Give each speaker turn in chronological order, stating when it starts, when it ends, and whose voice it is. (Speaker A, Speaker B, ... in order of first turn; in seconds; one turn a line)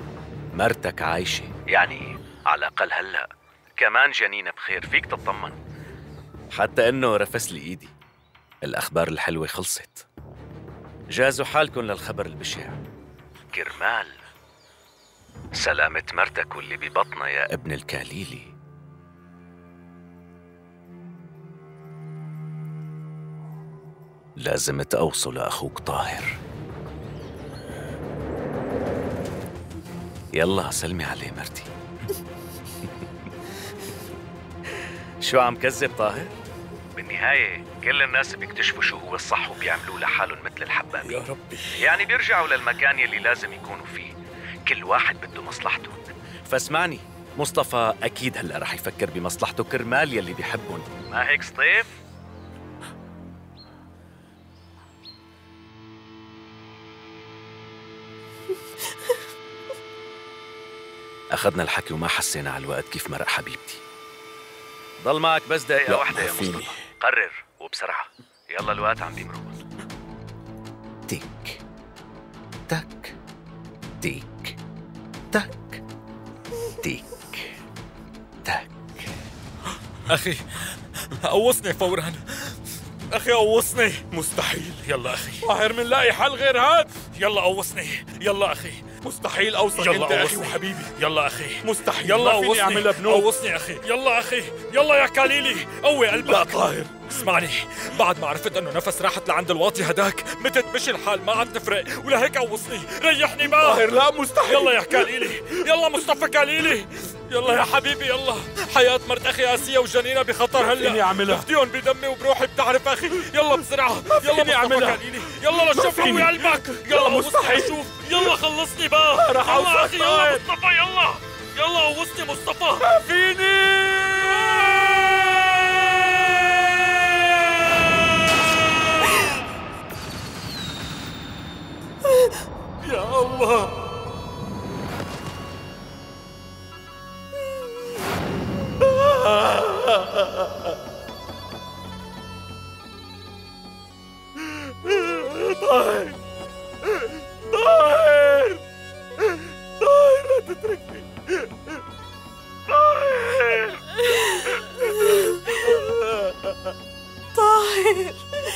Speaker A: 0.5-5.6
Speaker A: 6.5-7.9
Speaker A: 8.6-10.1
Speaker A: 11.1-12.8
Speaker A: 13.5-14.1
Speaker A: 15.6-18.5
Speaker A: 24.4-26.4
Speaker A: 30.3-31.7
Speaker A: 34.8-36.4
Speaker A: 36.9-41.1
Speaker B: 41.0-41.8
Speaker A: 41.7-44.1
Speaker A: 44.6-52.0
Speaker A: 61.3-63.8
Speaker A: 65.0-69.6
Speaker B: 65.9-66.8
Speaker A: 71.1-71.6
Speaker A: 72.7-73.2
Speaker A: 74.0-74.6
Speaker A: 75.3-75.8
Speaker A: 76.8-77.6
Speaker A: 78.4-79.1
Speaker C: 80.1-82.5
Speaker C: 83.1-84.0
Speaker B: 84.1-84.9
Speaker C: 84.8-85.4
Speaker B: 85.4-87.1
Speaker C: 87.1-88.8
Speaker B: 89.0-90.9
Speaker C: 89.8-103.9
Speaker B: 91.6-93.3
Speaker B: 96.2-97.2
Speaker B: 103.4-105.4
Speaker C: 104.4-122.8
Speaker B: 110.6-111.5
Speaker B: 114.0-117.8
Speaker B: 119.2-120.4
Speaker B: 122.8-127.6
Speaker B: 132.8-133.7
Speaker B: 139.2-139.9
Speaker B: 144.9-146.1
Speaker B: 147.6-148.6
Speaker B: 149.8-151.0
Speaker B: 152.8-153.8
Speaker D: 153.9-155.8
Speaker D: 157.3-158.2